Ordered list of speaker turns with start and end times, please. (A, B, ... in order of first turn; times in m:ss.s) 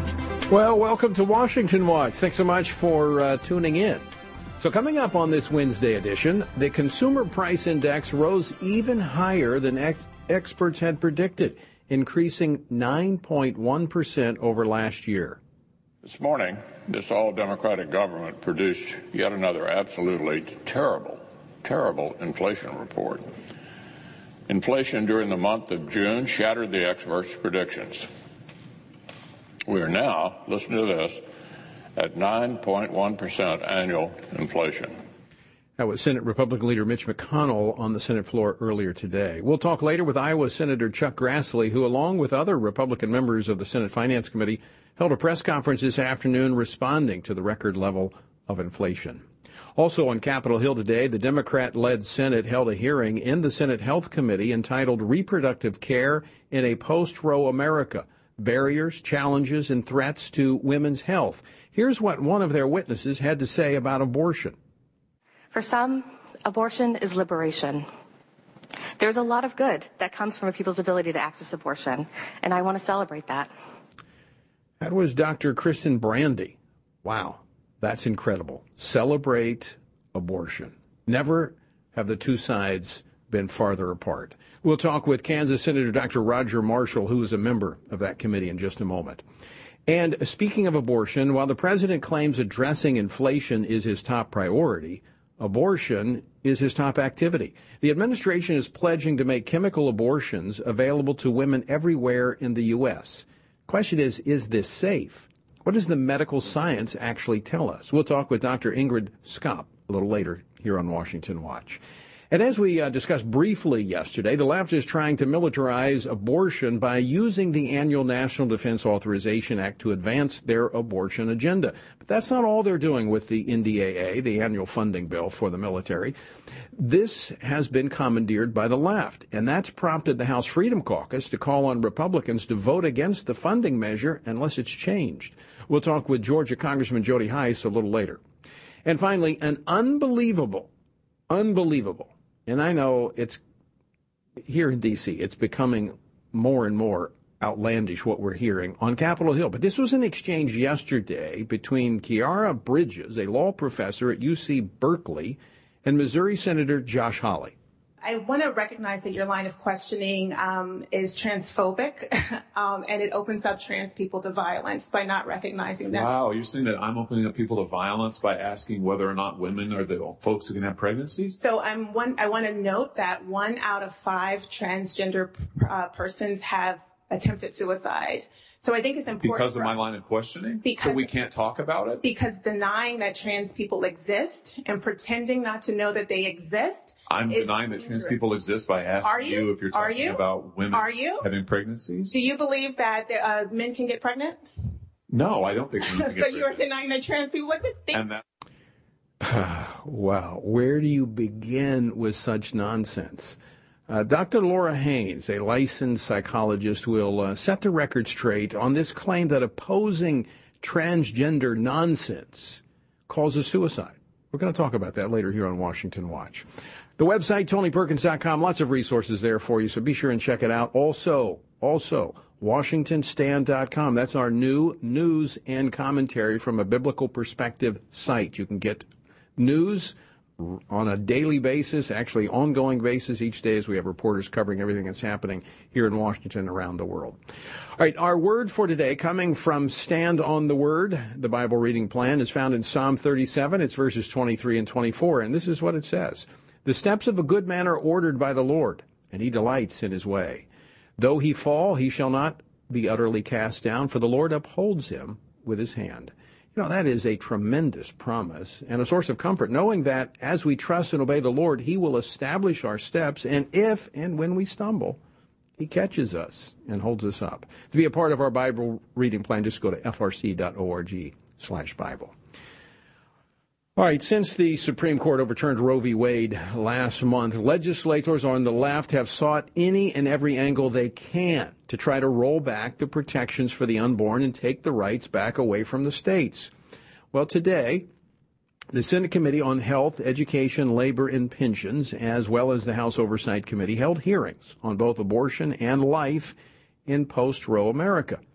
0:00.5-0:04.0 A
0:04.6-0:15.4 A
0:16.0-0:23.3 B
0:24.5-0:28.1 B
0:29.7-0:31.2 B
0:32.0-0:35.0 B
0:35.8-0:49.2 A
0:49.8-1:04.6 A
1:05.5-1:07.9 C
1:09.0-1:13.5 C
1:14.8-1:29.2 A
1:29.9-1:51.8 A
1:52.3-2:06.2 A
2:06.8-2:18.2 A
2:18.8-2:20.7 A
2:21.3-2:23.4 A
2:24.4-2:37.6 A
2:38.0-2:46.1 D
2:45.9-2:51.4 E
2:51.4-2:59.8 D
2:59.2-3:02.0 E
3:00.6-3:01.2 D
3:02.0-3:08.2 D
3:07.1-3:12.1 E
3:09.0-3:11.3 D
3:12.1-3:14.5 D
3:15.1-3:16.6 E
3:15.9-3:18.1 D
3:17.9-3:18.2 E
3:19.2-3:36.5 A
3:37.0-3:48.9 A
3:49.4-3:57.2 A
3:57.8-4:10.5 A
4:11.0-4:25.0 A
4:25.6-4:32.1 A
4:33.8-4:46.5 A
4:47.1-4:47.9 A
4:48.7-4:56.4 A
4:56.9-4:58.2 A